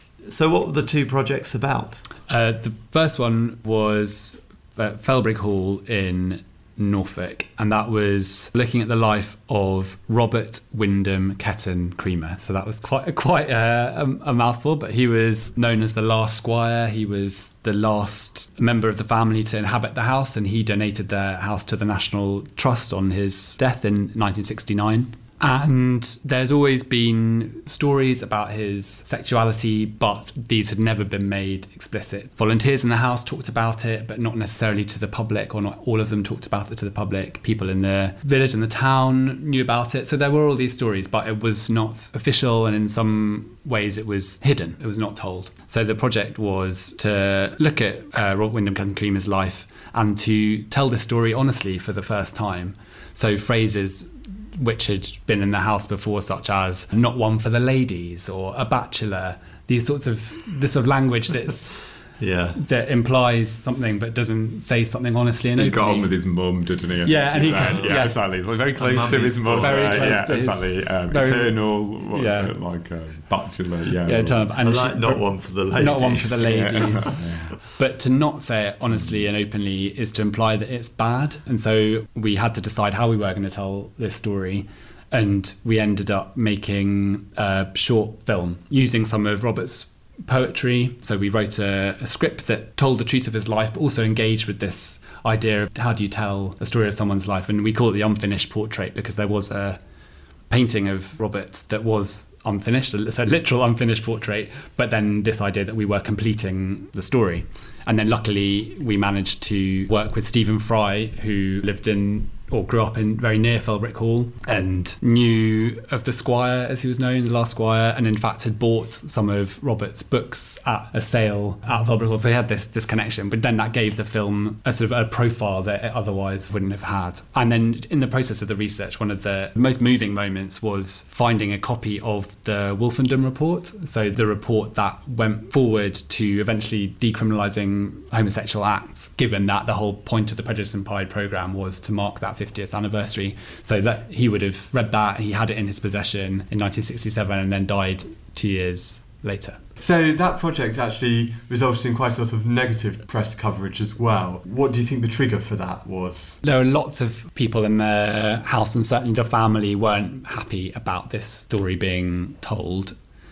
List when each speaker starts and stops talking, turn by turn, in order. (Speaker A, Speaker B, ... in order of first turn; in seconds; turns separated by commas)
Speaker A: 0.3-2.0, Speaker B: 2.3-61.9, Speaker A: 62.2-62.6, Speaker B: 62.5-66.1, Speaker C: 65.6-74.5, Speaker B: 67.0-68.2, Speaker A: 67.4-67.9, Speaker A: 68.8-70.3, Speaker B: 69.6-72.5, Speaker B: 74.0-99.8, Speaker A: 74.6-77.0, Speaker C: 76.3-77.5, Speaker B: 100.5-149.6, Speaker D: 149.8-156.4, Speaker B: 156.4-162.9